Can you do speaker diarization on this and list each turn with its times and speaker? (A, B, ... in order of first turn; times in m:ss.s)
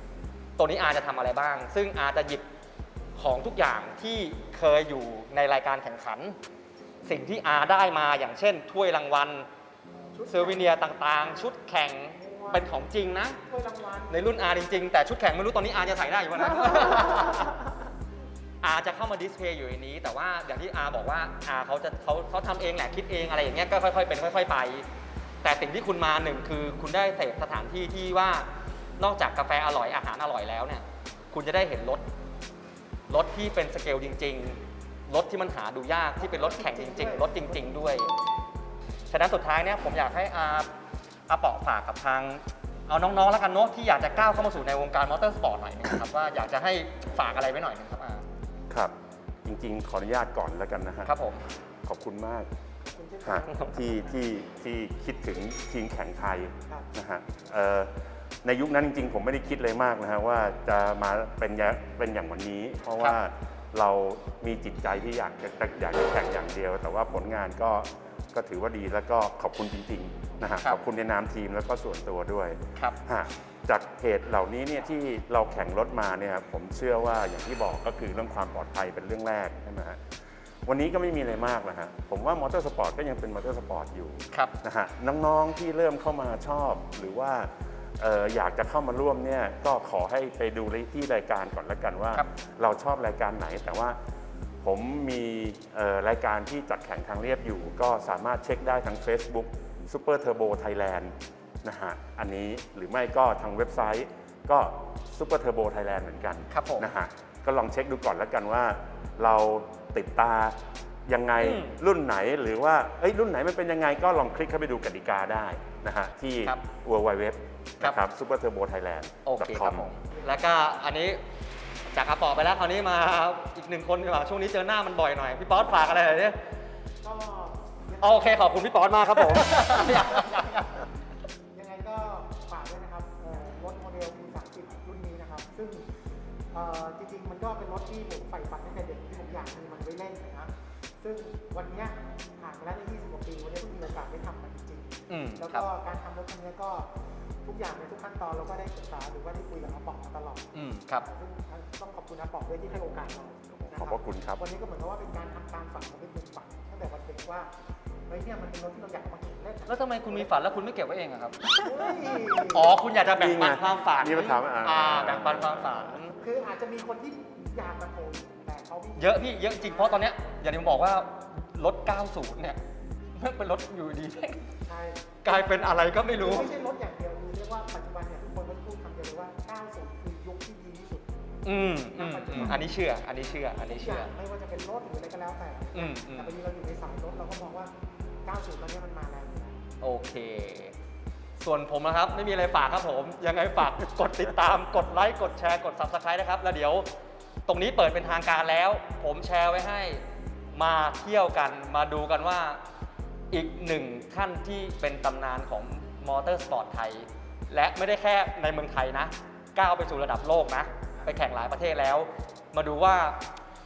0:00.6-0:02.4 A
0:03.2-0:06.4 A
0:07.0-0:09.5 A
0:10.1-0:11.5 B
0:10.3-0:13.4 A
0:12.2-0:12.8 B
0:13.4-0:14.2 B
0:14.1-0:17.7 A
0:18.6-0:24.8 A
0:25.4-0:32.0 A
0:33.1-0:38.1 A
0:36.2-0:38.3 B
0:39.1-0:40.7 A
0:41.3-0:48.2 A
0:49.4-0:51.1 C
0:51.1-0:51.4 A
0:51.8-0:52.5 C
0:52.8-0:53.9 B
0:53.2-1:20.0 C
0:53.5-0:53.7 A
1:20.7-1:34.0 C
1:34.6-1:59.9 C
1:46.5-1:46.9 A
1:51.4-1:51.8 A
1:59.3-2:01.2 A
2:01.9-2:06.4 A
2:07.0-2:10.3 B
2:08.0-2:10.9 A
2:11.5-2:15.9 B
2:16.5-2:26.9 B
2:25.1-2:25.7 A
2:27.4-2:37.5 B
2:30.5-2:31.1 A
2:33.5-2:34.4 C
2:38.1-2:40.6 B
2:39.7-2:41.6 A
2:41.6-2:42.8 B
2:42.5-2:46.2 A
2:43.2-2:45.9 C
2:46.2-2:50.1 B
2:49.0-2:52.6 A
2:53.2-2:54.5 A
2:54.7-3:01.1 B
2:55.2-2:56.5 A
3:01.4-3:04.1 A
3:01.9-3:07.7 B
3:05.7-3:06.4 A
3:08.2-3:09.6 B
3:09.8-3:10.7 A
3:11.4-3:16.9 A
3:17.5-3:20.0 A
3:20.5-3:22.6 A
3:23.3-3:33.2 A